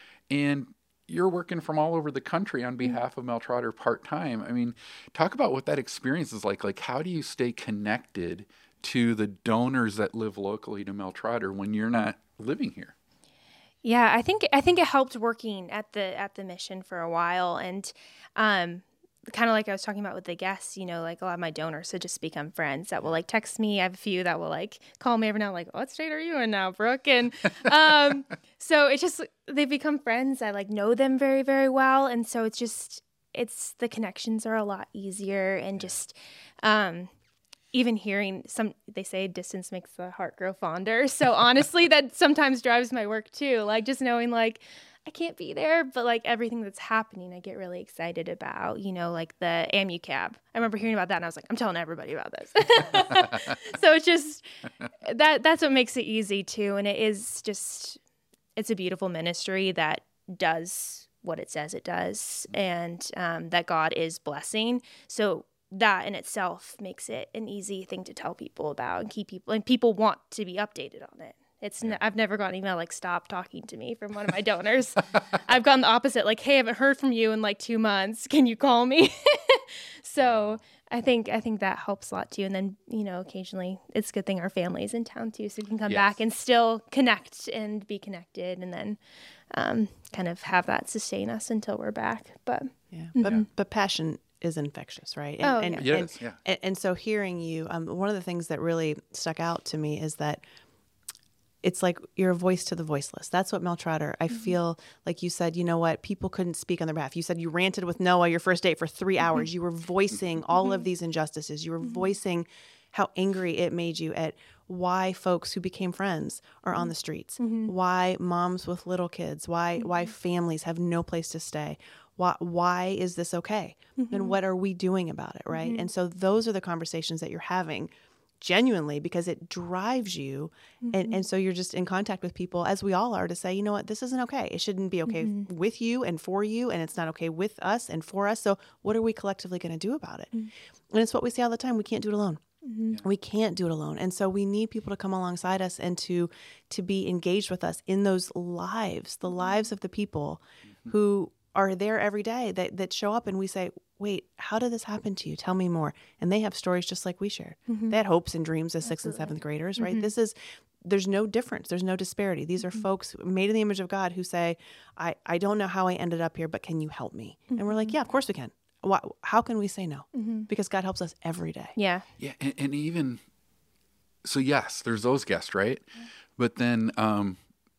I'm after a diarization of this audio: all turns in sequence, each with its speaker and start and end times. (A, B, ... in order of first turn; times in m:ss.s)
0:00.3-0:12.9 A
0:13.8-0:37.1 B
0:37.7-0:54.4 B
0:53.2-0:53.5 A
0:55.0-0:58.0 B
0:58.6-1:29.0 B
1:20.2-1:20.6 A
1:25.9-1:26.2 A
1:29.5-1:33.4 B
1:32.9-1:40.4 C
1:35.4-1:35.8 B
1:35.7-1:36.4 A
1:41.6-2:20.3 C
1:44.3-1:44.6 B
1:51.8-1:52.1 B
1:57.4-1:57.7 B
2:04.0-2:04.4 B
2:05.5-2:05.9 B
2:10.8-2:11.2 B
2:15.0-2:15.5 B
2:20.9-2:22.4 C
2:22.6-2:23.0 B
2:23.0-2:51.7 C
2:29.3-2:29.6 B
2:37.7-2:38.0 B
2:38.8-2:40.1 B
2:47.5-2:47.9 B
2:50.1-2:50.5 B
2:51.8-2:52.0 B
2:52.2-2:53.2 A
2:54.2-2:57.4 A